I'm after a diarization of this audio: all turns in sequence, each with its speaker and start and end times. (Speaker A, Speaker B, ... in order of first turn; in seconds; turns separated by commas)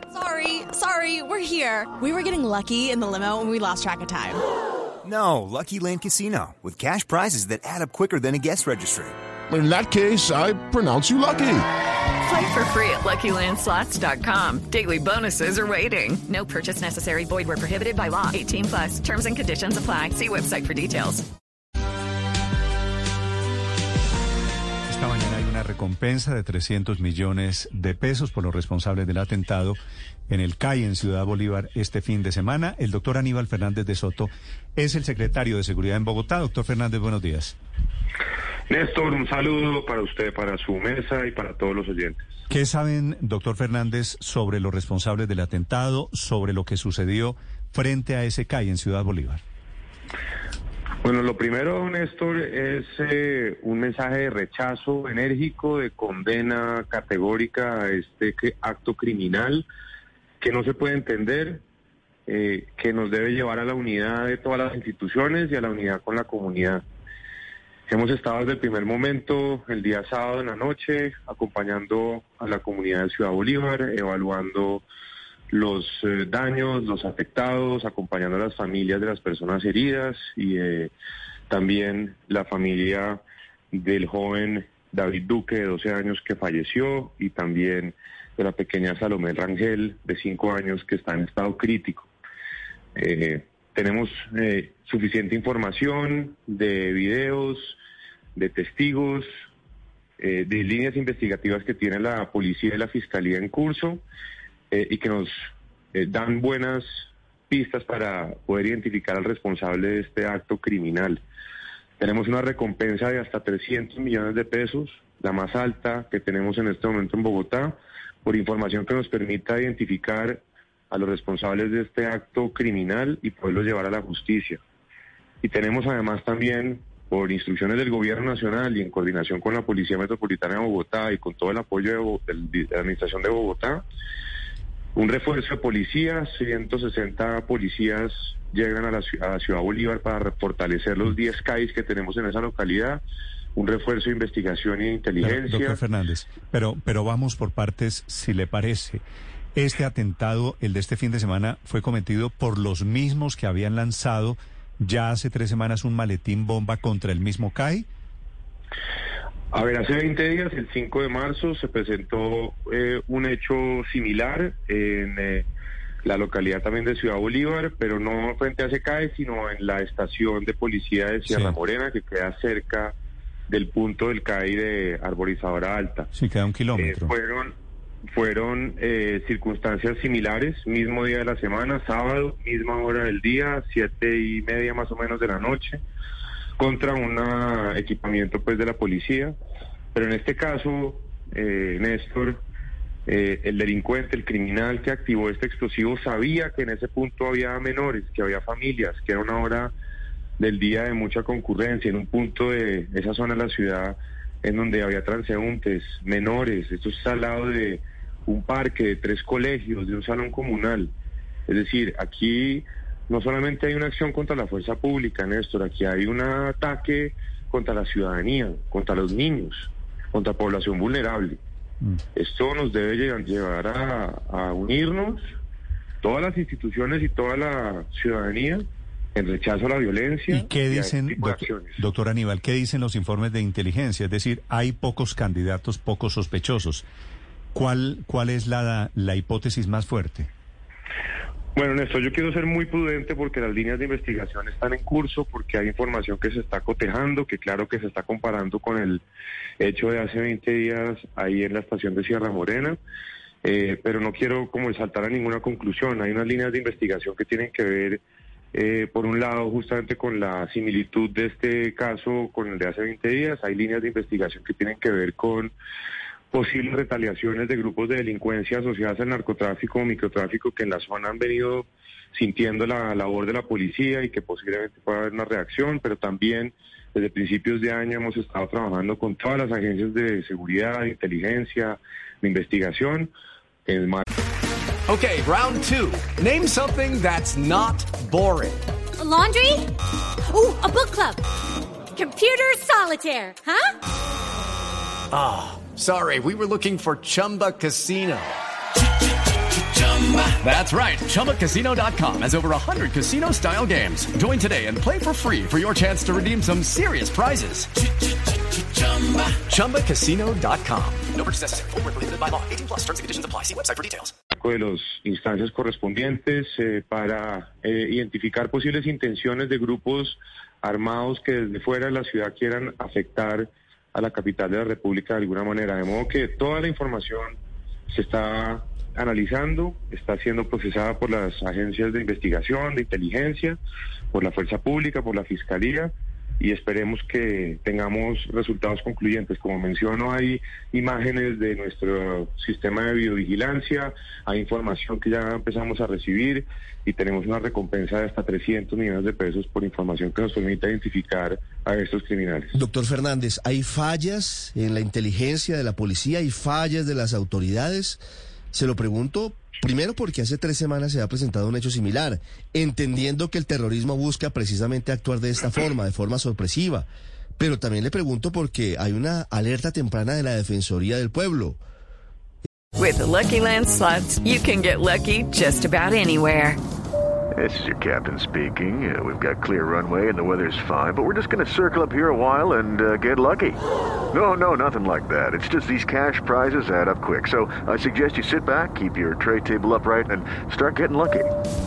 Speaker A: 0.1-4.4, Speaker B: 5.0-9.1, Speaker C: 9.5-11.7, Speaker D: 12.2-21.2, Speaker E: 24.9-37.5, Speaker F: 38.7-42.2, Speaker E: 42.5-49.4, Speaker F: 51.0-59.7, Speaker F: 60.4-61.6, Speaker F: 62.3-66.8, Speaker F: 67.9-74.8, Speaker F: 75.5-80.9, Speaker F: 81.5-83.2, Speaker F: 83.7-92.1, Speaker F: 93.0-97.8, Speaker F: 98.4-99.3, Speaker F: 100.2-104.0, Speaker F: 104.7-105.3, Speaker F: 105.9-106.9, Speaker F: 107.5-111.2, Speaker F: 112.0-124.6, Speaker F: 125.4-133.8, Speaker F: 134.9-143.0, Speaker F: 143.6-145.8, Speaker E: 145.2-149.0, Speaker E: 149.6-157.9, Speaker F: 159.5-165.5, Speaker F: 166.0-172.9, Speaker E: 171.3-171.6, Speaker F: 173.5-176.1, Speaker E: 176.2-177.1, Speaker F: 176.8-177.5, Speaker F: 178.1-185.8, Speaker F: 186.6-189.4, Speaker F: 189.9-192.4, Speaker F: 193.1-199.7, Speaker F: 200.4-210.9, Speaker F: 211.5-221.4, Speaker F: 222.2-225.2, Speaker F: 226.0-231.8, Speaker E: 230.3-236.8, Speaker E: 237.5-240.3, Speaker F: 241.6-249.0, Speaker F: 249.6-252.8, Speaker F: 253.4-258.0, Speaker F: 258.5-265.5, Speaker F: 266.3-283.1, Speaker F: 283.7-284.1, Speaker G: 284.9-288.6, Speaker H: 289.0-289.7, Speaker H: 290.3-291.2, Speaker H: 291.9-293.7, Speaker G: 295.1-298.4, Speaker G: 299.8-307.7, Speaker G: 308.8-314.1, Speaker F: 314.3-327.4, Speaker F: 327.9-333.6, Speaker F: 334.1-352.5, Speaker I: 352.5-358.0, Speaker I: 358.5-366.9, Speaker I: 367.4-371.6, Speaker D: 372.8-376.6, Speaker J: 377.4-383.6, Speaker J: 384.1-391.3